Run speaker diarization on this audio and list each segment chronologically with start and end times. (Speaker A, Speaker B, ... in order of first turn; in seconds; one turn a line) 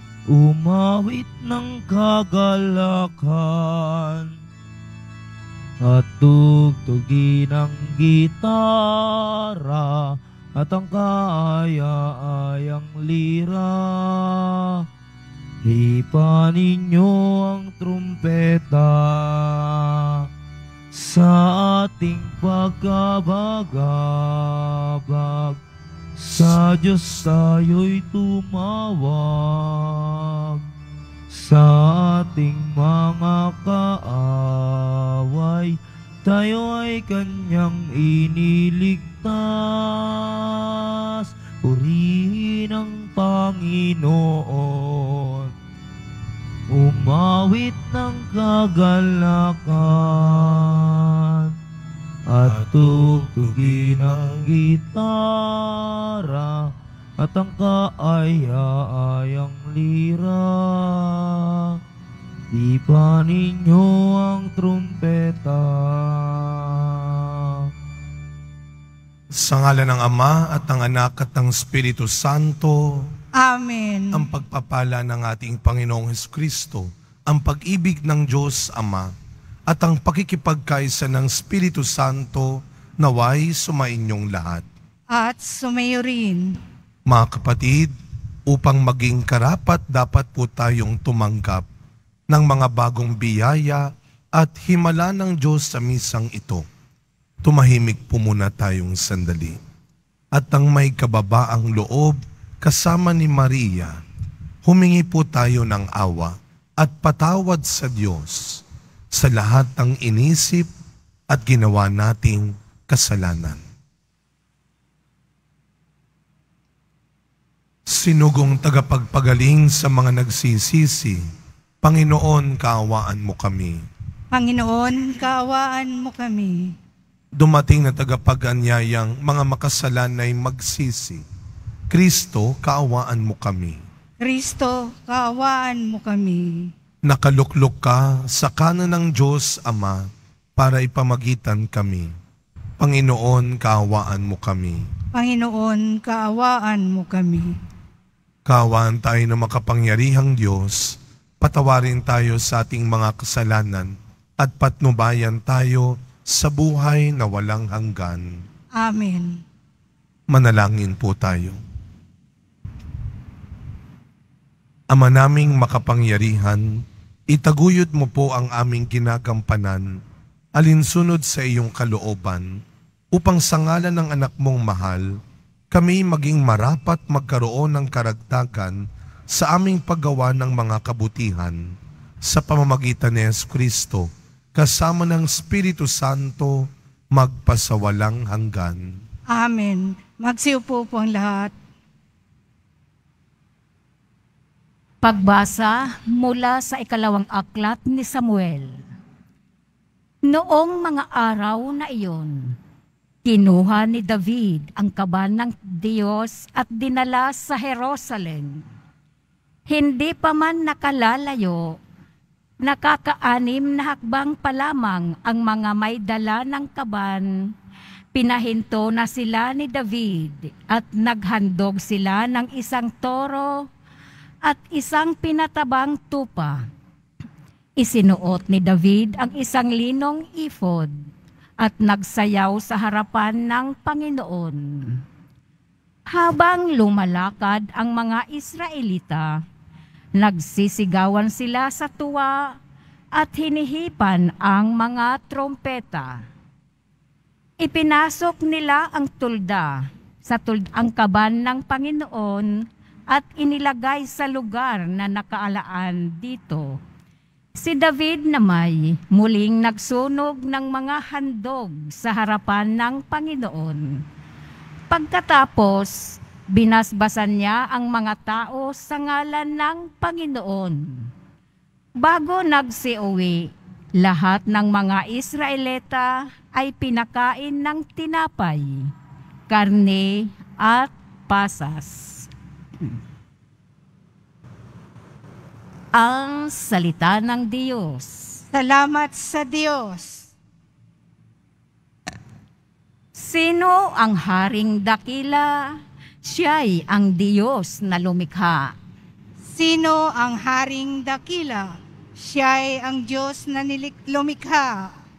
Speaker A: 0.3-4.3
Speaker A: 5.8-14.8
Speaker A: 15.6-20.3
Speaker A: 20.9-25.6
Speaker A: 26.2-30.6
Speaker A: 31.3-45.5
Speaker A: 46.7-51.5
Speaker A: 52.3-61.8
Speaker A: 62.5-67.7
Speaker B: 69.3-73.1
Speaker C: 73.3-74.2
Speaker B: 74.1-79.1
Speaker B: 79.7-84.7
Speaker C: 85.1-86.5
Speaker B: 87.1-87.9
Speaker B: 88.5-91.6
Speaker B: 92.3-96.7
Speaker B: 97.4-99.6
Speaker B: 100.3-104.0
Speaker B: 104.7-108.6
Speaker B: 109.1-110.7
Speaker B: 111.3-113.6
Speaker B: 117.9-121.2
Speaker B: 121.8-123.8
Speaker C: 124.3-126.7
Speaker B: 127.4-131.2
Speaker B: 131.9-133.8
Speaker C: 134.2-136.7
Speaker B: 137.0-142.1
Speaker B: 142.8-144.9
Speaker C: 145.1-147.5
Speaker B: 148.4-158.4
Speaker C: 158.7-159.4
Speaker B: 160.3-161.6
Speaker B: 164.9-169.9
Speaker B: 170.6-172.6
Speaker B: 173.1-175.2
Speaker B: 175.7-178.8
Speaker B: 179.3-181.6
Speaker B: 182.2-188.9
Speaker C: 189.3-191.5
Speaker D: 195.0-198.8
Speaker D: 200.2-202.6
Speaker D: 203.2-208.6
Speaker D: 209.7-211.8
Speaker D: 212.6-217.5
Speaker D: 218.1-223.7
Speaker D: 224.4-226.6
Speaker D: 227.8-230.9
Speaker D: 231.6-235.0
Speaker D: 236.1-239.4
Speaker D: 240.2-242.6
Speaker D: 243.1-246.2
Speaker D: 247.6-256.8
Speaker D: 257.5-264.0
Speaker D: 264.9-271.1
Speaker D: 272.0-278.9
Speaker D: 279.5-282.3
Speaker D: 285.9-288.4
Speaker C: 288.5-290.3
Speaker D: 293.1-298.7
Speaker C: 299.5-304.9